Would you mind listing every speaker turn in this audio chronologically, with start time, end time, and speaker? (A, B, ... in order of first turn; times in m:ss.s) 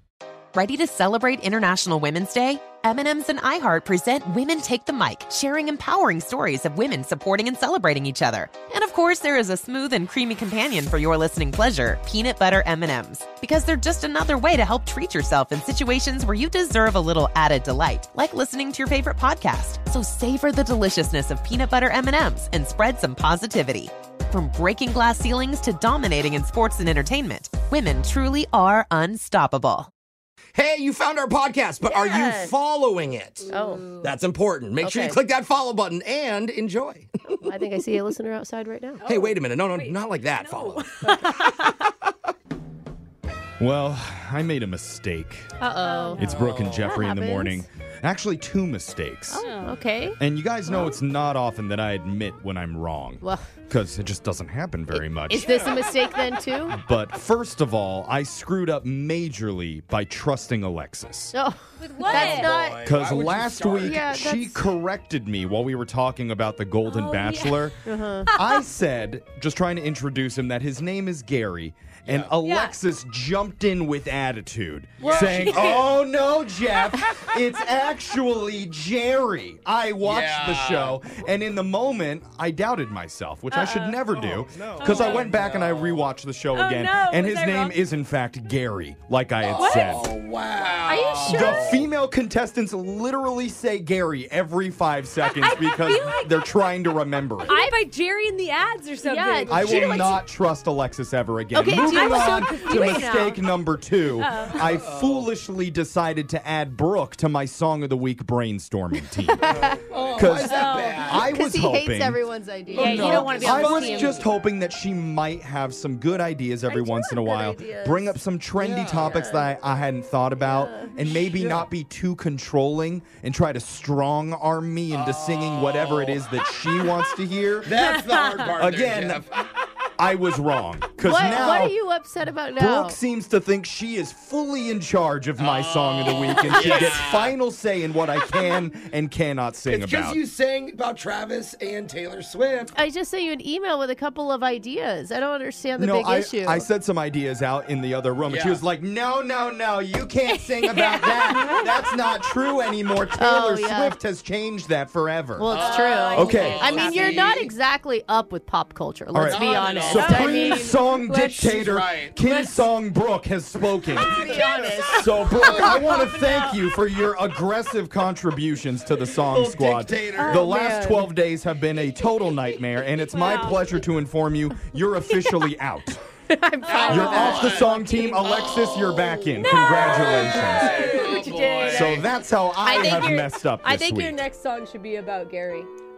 0:00.5-0:29.9 A
0:30.5-0:33.5 B
0:31.8-0:32.5 C
0:33.4-0:34.1 D
0:33.5-0:33.9 C
0:34.0-0:37.1 B
0:34.8-0:35.2 C
0:37.4-0:39.0 C
0:39.0-0:41.9 D
0:39.0-0:41.4 B
0:43.6-0:45.5 E
0:45.6-0:47.6 C
0:45.7-0:46.8 D
0:46.2-0:49.5 E
0:46.2-0:46.9 B
0:49.3-0:50.2 C
0:49.3-0:49.8 D
0:50.2-0:55.5 E
0:50.7-0:50.9 C
0:55.3-0:56.8 C
0:56.7-1:01.3 E
1:01.3-1:02.9 C
1:01.8-1:02.6 D
1:02.0-1:04.0 B
1:02.8-1:07.8 E
1:03.8-1:04.7 C
1:06.8-1:07.7 D
1:07.8-1:08.3 C
1:08.3-1:08.6 D
1:08.3-1:30.1 E
1:12.1-1:12.3 B
1:12.4-1:12.8 D
1:15.0-1:15.7 B
1:15.0-1:15.8 C
1:15.0-1:15.9 D
1:17.1-1:17.4 D
1:20.0-1:21.0 B
1:23.5-1:24.0 D
1:24.3-1:26.1 B
1:24.8-1:25.4 D
1:26.5-1:27.8 D
1:29.4-1:31.9 B
1:29.6-1:30.0 D
1:30.8-1:31.7 C
1:30.9-1:31.3 D
1:31.2-1:37.6 E
1:35.3-1:36.6 D
1:37.4-1:39.6 D
1:37.5-1:37.8 C
1:39.0-1:40.2 C
1:39.5-1:49.6 E
1:41.5-1:43.3 C
1:41.7-1:43.4 D
1:44.1-1:44.7 D
1:44.5-1:45.3 B
1:49.3-1:49.8 C
1:49.5-1:51.4 B
1:50.1-1:52.2 E
1:50.4-1:51.2 D
1:50.5-1:54.2 C
1:52.7-1:54.2 D
1:52.7-2:07.9 E
1:52.8-1:54.1 B
1:56.7-1:58.2 C
1:58.6-1:59.2 B
1:59.0-1:59.5 C
2:00.4-2:00.9 C
2:01.2-2:01.6 B
2:04.9-2:06.3 B
2:07.6-2:09.4 B
2:07.8-2:08.4 D
2:08.5-2:09.2 E
2:10.0-2:11.7 E
2:11.0-2:13.0 C
2:12.6-2:20.2 E
2:15.4-2:17.4 B
2:19.7-2:22.7 B
2:22.7-2:26.6 C
2:25.8-2:36.9 E
2:28.3-2:28.6 B
2:30.4-2:31.8 D
2:33.2-2:34.0 C
2:35.4-2:41.6 C
2:35.5-2:37.5 B
2:35.5-2:37.4 D
2:39.1-2:56.0 E
2:39.2-2:40.6 B
2:39.8-2:40.7 D
2:41.4-2:42.1 B
2:44.0-2:45.8 C
2:45.4-2:45.7 B
2:45.4-2:46.4 D
2:49.1-2:50.6 B
2:50.2-2:51.1 C
2:52.8-2:53.9 D
2:56.3-2:58.0 C
2:56.6-3:02.1 B
2:56.7-2:57.7 D
2:56.8-3:01.0 E
2:59.4-3:02.0 D
2:59.8-3:01.7 C
3:01.6-3:04.2 E
3:02.6-3:05.7 C